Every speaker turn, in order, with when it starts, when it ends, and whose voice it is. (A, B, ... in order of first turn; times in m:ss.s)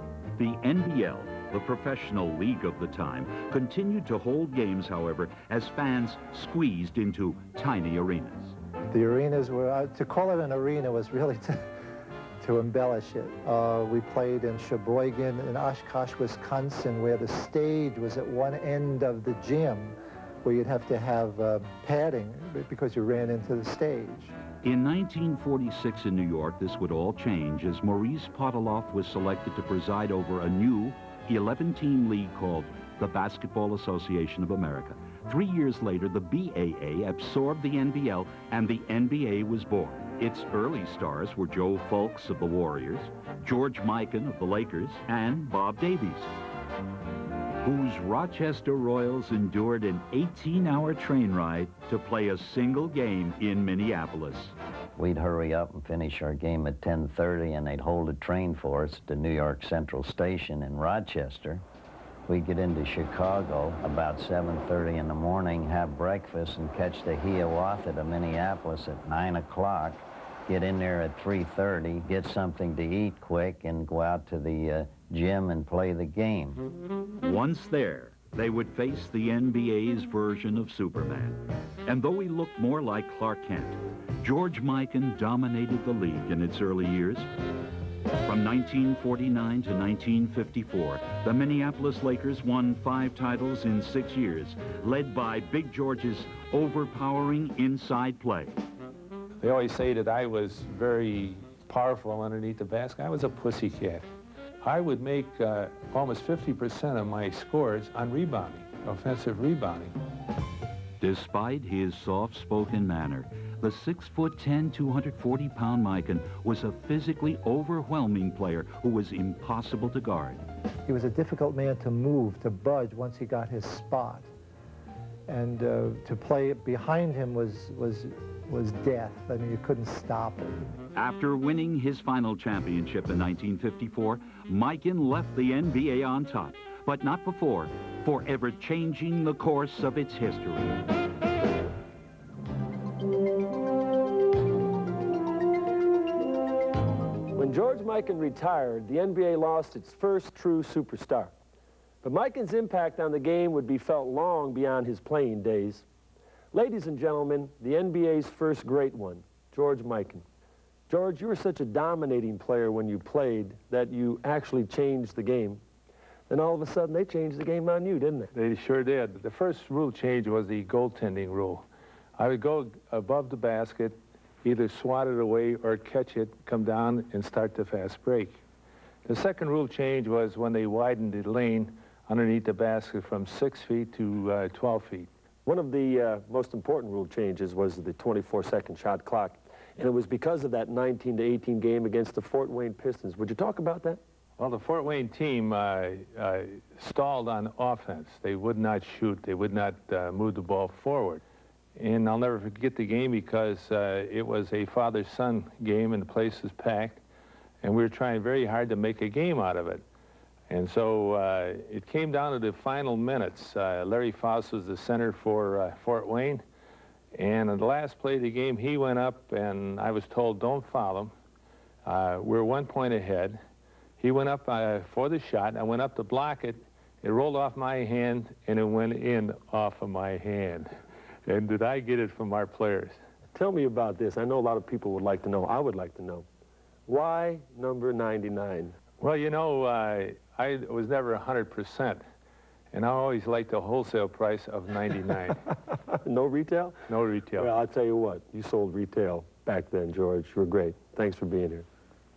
0:00.4-0:08.6 A
0:08.9-0:11.7 B
0:12.4-0:24.3 B
0:24.6-0:46.3 A
0:47.6-0:54.5 A
0:55.0-1:01.6 C
1:02.3-1:16.6 C
1:17.2-1:27.3 A
1:28.3-1:38.6 A
1:39.4-1:44.1 D
1:44.6-1:50.0 D
1:51.0-2:00.4 A
2:00.9-2:04.3 B
2:05.3-2:10.7 B
2:11.0-2:20.8 A
2:27.4-2:31.4 E
2:32.0-2:35.9 E
2:36.5-2:40.3 E
2:40.9-2:45.6 E
2:46.3-2:48.3 E
2:48.3-2:51.7 D
2:52.2-2:58.4 D
2:59.0-3:05.1 D
3:05.4-3:14.0 E
3:14.4-3:21.2 D
3:21.8-3:27.0 D
3:27.6-3:29.8 D
3:30.5-3:36.4 D
3:37.1-3:41.1 D
3:41.8-3:43.4 D
3:44.0-3:50.7 D
3:51.2-3:53.0 D
3:53.3-3:56.3 E
3:56.9-3:58.8 E
3:59.0-4:02.0 D
4:02.7-4:05.4 D
4:06.0-4:06.8 E
4:06.9-4:07.5 D
4:07.4-4:11.7 E